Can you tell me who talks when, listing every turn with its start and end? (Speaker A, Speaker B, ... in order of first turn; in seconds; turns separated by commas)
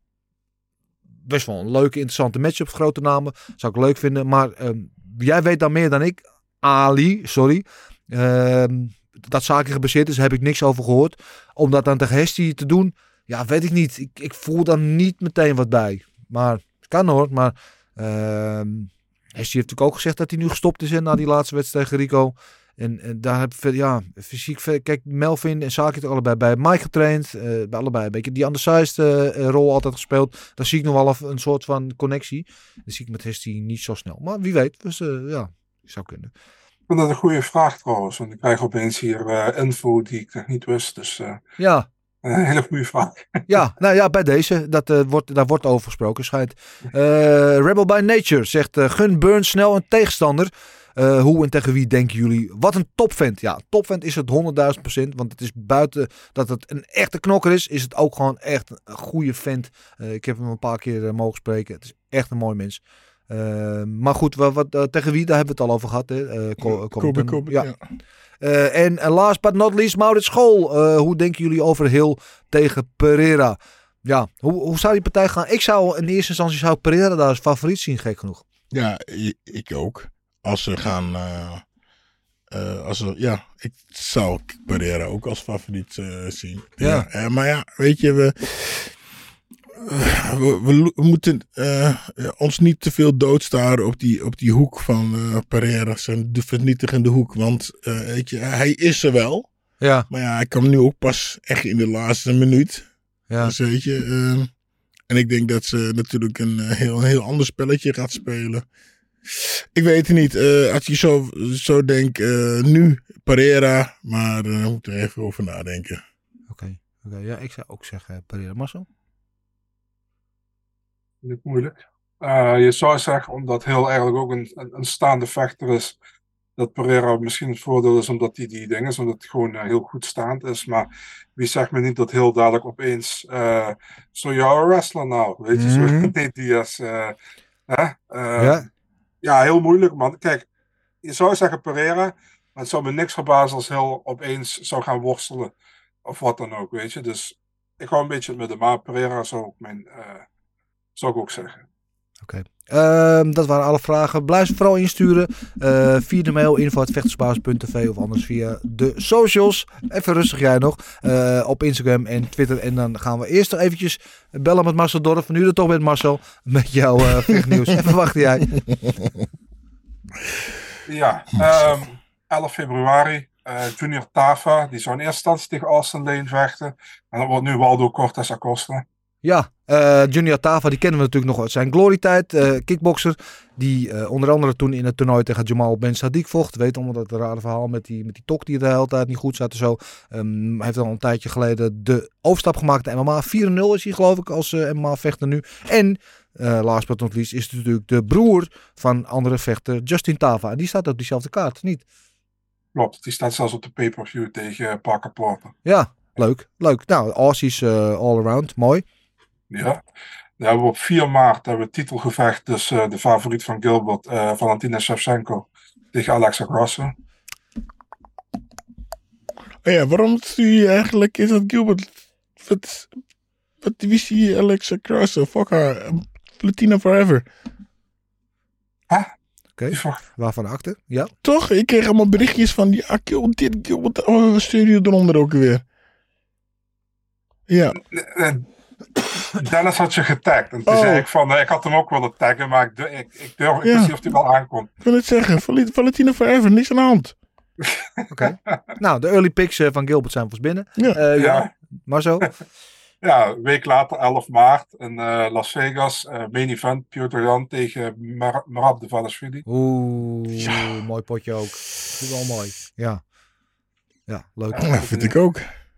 Speaker A: 1.3-36.3, Speaker B: 36.9-41.4, Speaker A: 41.6-41.9, Speaker B: 42.2-43.4, Speaker A: 43.5-67.7, Speaker C: 66.6-67.8, Speaker A: 68.4-78.4, Speaker C: 78.7-81.6, Speaker C: 82.5-88.9, Speaker A: 86.8-87.1, Speaker C: 89.7-99.5, Speaker A: 99.8-100.1, Speaker C: 100.1-102.9, Speaker C: 103.4-104.5, Speaker C: 105.1-108.6, Speaker C: 109.2-116.0, Speaker A: 116.5-118.8, Speaker B: 121.2-125.9, Speaker B: 126.6-137.1, Speaker A: 135.5-136.1, Speaker B: 137.7-138.6, Speaker A: 138.4-138.7, Speaker B: 139.2-140.4, Speaker B: 141.0-145.5, Speaker B: 146.0-150.2, Speaker B: 150.9-151.6, Speaker A: 152.2-168.5, Speaker C: 168.5-169.2, Speaker B: 170.8-178.8, Speaker C: 171.3-171.8, Speaker A: 179.2-201.8, Speaker B: 202.7-205.5, Speaker A: 205.6-208.8, Speaker B: 209.5-209.8, Speaker B: 210.4-216.9, Speaker C: 219.6-222.9, Speaker C: 223.6-227.3, Speaker A: 229.6-231.1, Speaker B: 229.7-230.0, Speaker C: 231.2-235.6, Speaker C: 237.5-237.8, Speaker B: 237.9-238.5, Speaker B: 239.3-244.7, Speaker C: 240.7-241.1, Speaker C: 243.6-243.9, Speaker C: 244.8-247.1, Speaker B: 247.6-248.6, Speaker A: 248.1-252.3, Speaker B: 251.2-251.5, Speaker B: 253.0-259.4, Speaker A: 259.5-263.0, Speaker C: 260.4-260.8, Speaker A: 264.1-264.7, Speaker B: 264.5-265.1, Speaker C: 264.6-265.5